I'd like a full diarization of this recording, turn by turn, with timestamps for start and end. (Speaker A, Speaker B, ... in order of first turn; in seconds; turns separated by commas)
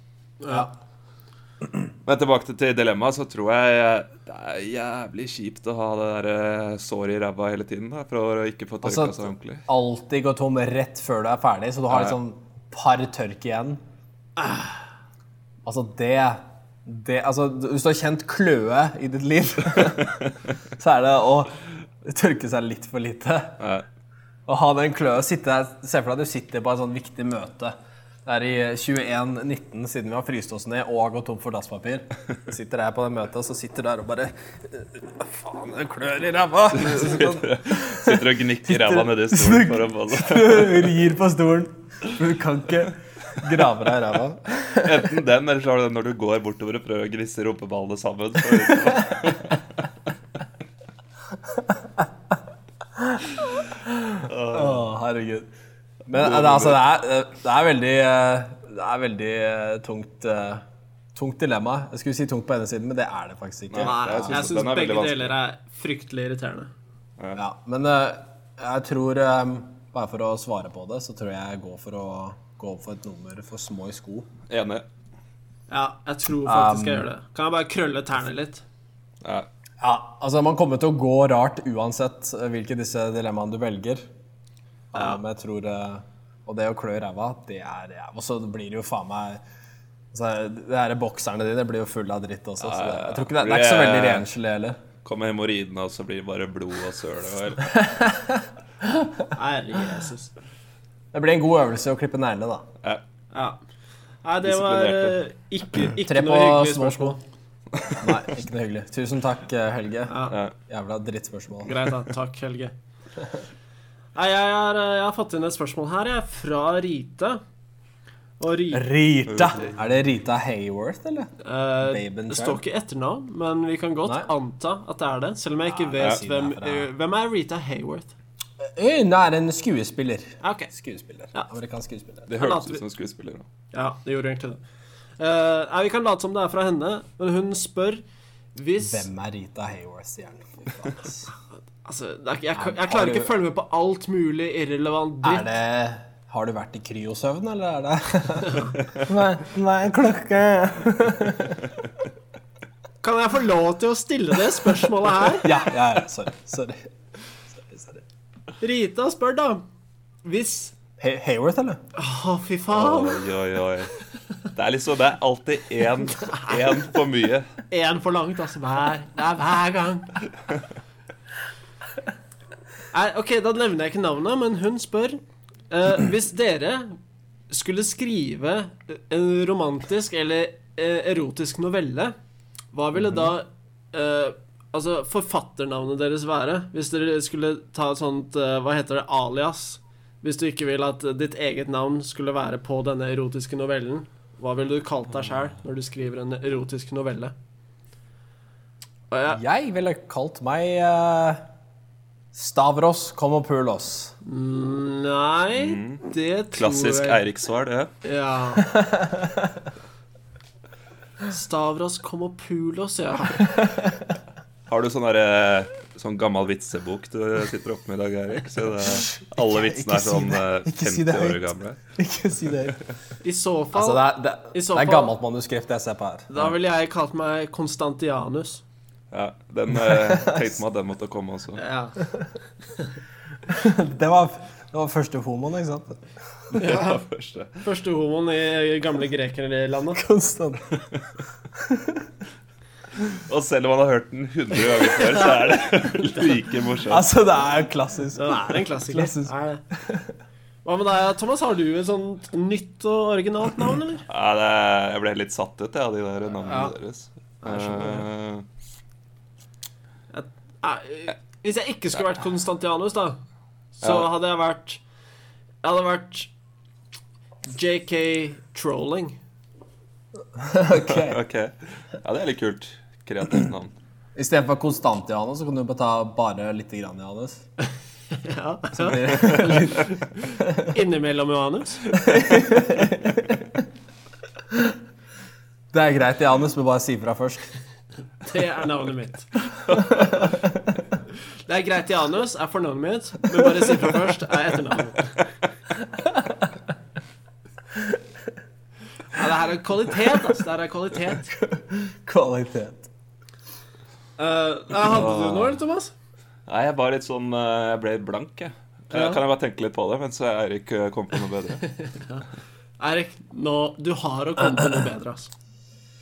Speaker A: 0.4-0.7, Speaker B: 2.0-9.6, Speaker C: 8.8-13.8, Speaker B: 11.9-12.1, Speaker A: 14.4-14.7, Speaker C: 15.6-20.2, Speaker C: 20.8-23.6, Speaker B: 23.6-23.8, Speaker C: 24.5-45.1, Speaker B: 36.8-40.9, Speaker B: 44.7-49.6, Speaker C: 48.7-49.0, Speaker C: 51.5-52.0, Speaker C: 53.0-55.5, Speaker B: 54.2-54.8, Speaker C: 56.1-60.6, Speaker B: 56.1-56.8, Speaker C: 61.1-64.5, Speaker B: 63.7-65.3, Speaker A: 63.8-66.7, Speaker C: 67.3-74.3, Speaker B: 74.5-74.8, Speaker A: 75.7-78.6, Speaker C: 76.4-77.0, Speaker B: 79.2-79.5, Speaker C: 79.8-84.0, Speaker C: 84.9-89.4, Speaker C: 90.1-94.8, Speaker B: 92.6-94.3, Speaker B: 95.0-97.8, Speaker C: 97.7-99.2, Speaker A: 99.3-100.3, Speaker C: 101.1-102.7, Speaker A: 103.3-103.6, Speaker A: 104.2-107.2, Speaker B: 104.4-105.2, Speaker C: 106.0-107.2, Speaker B: 107.7-108.2, Speaker C: 107.9-110.2, Speaker A: 110.1-110.4, Speaker B: 110.3-110.5, Speaker C: 110.7-111.7, Speaker A: 111.6-112.7, Speaker A: 114.1-117.4, Speaker A: 118.4-118.9, Speaker C: 118.7-121.3, Speaker B: 119.3-119.6, Speaker A: 121.4-128.1, Speaker C: 121.8-122.6, Speaker C: 125.8-126.9, Speaker C: 128.6-132.3, Speaker A: 130.4-130.7, Speaker B: 132.3-133.4, Speaker A: 132.4-132.8, Speaker A: 133.7-134.6, Speaker A: 135.2-138.0, Speaker A: 138.5-139.1, Speaker C: 138.8-141.3, Speaker A: 141.8-145.5, Speaker C: 142.6-143.3, Speaker C: 145.2-151.7, Speaker A: 148.4-148.7, Speaker A: 153.0-155.5, Speaker C: 155.4-156.8, Speaker C: 157.5-158.0, Speaker A: 158.6-159.6, Speaker A: 160.2-160.7, Speaker C: 161.0-161.8, Speaker A: 161.9-163.2, Speaker B: 162.7-163.9, Speaker B: 164.5-167.5, Speaker A: 166.1-166.6, Speaker A: 167.7-170.2, Speaker A: 172.9-175.2, Speaker A: 175.7-177.0, Speaker A: 177.5-182.1, Speaker A: 182.7-197.3, Speaker A: 199.1-199.4, Speaker C: 199.3-201.4, Speaker C: 202.3-204.1, Speaker A: 204.2-207.2, Speaker B: 205.5-207.9, Speaker A: 208.0-208.7, Speaker C: 208.6-209.6, Speaker A: 211.3-213.5, Speaker C: 213.6-214.0, Speaker B: 214.7-221.8, Speaker C: 219.4-222.8, Speaker A: 223.2-225.1, Speaker C: 223.7-226.3, Speaker A: 226.3-228.6, Speaker B: 229.1-231.6, Speaker C: 229.9-230.5, Speaker A: 231.6-232.0, Speaker C: 233.5-236.0, Speaker B: 236.5-237.6, Speaker A: 236.6-237.0, Speaker A: 237.6-240.0, Speaker C: 239.9-240.9, Speaker C: 241.5-242.0, Speaker B: 243.1-247.1, Speaker C: 246.9-250.1, Speaker A: 248.1-249.6, Speaker A: 250.6-254.1, Speaker B: 254.1-258.4, Speaker A: 256.4-256.7, Speaker A: 257.4-258.0, Speaker A: 260.1-263.2, Speaker A: 263.8-264.8, Speaker B: 263.8-264.1, Speaker A: 265.6-266.3, Speaker A: 267.5-269.2, Speaker C: 270.4-271.2, Speaker B: 270.8-273.7, Speaker C: 274.1-277.4, Speaker A: 278.1-281.9, Speaker C: 278.8-280.7, Speaker C: 282.0-283.5, Speaker C: 285.7-287.5, Speaker A: 288.2-289.3, Speaker C: 289.8-290.6, Speaker A: 291.5-295.2, Speaker C: 295.9-296.5, Speaker C: 297.7-298.0, Speaker A: 299.1-301.3, Speaker C: 301.3-302.9, Speaker A: 304.2-305.9, Speaker B: 304.9-305.6, Speaker B: 306.5-311.6, Speaker A: 308.9-309.2, Speaker A: 311.8-312.2, Speaker A: 312.8-315.3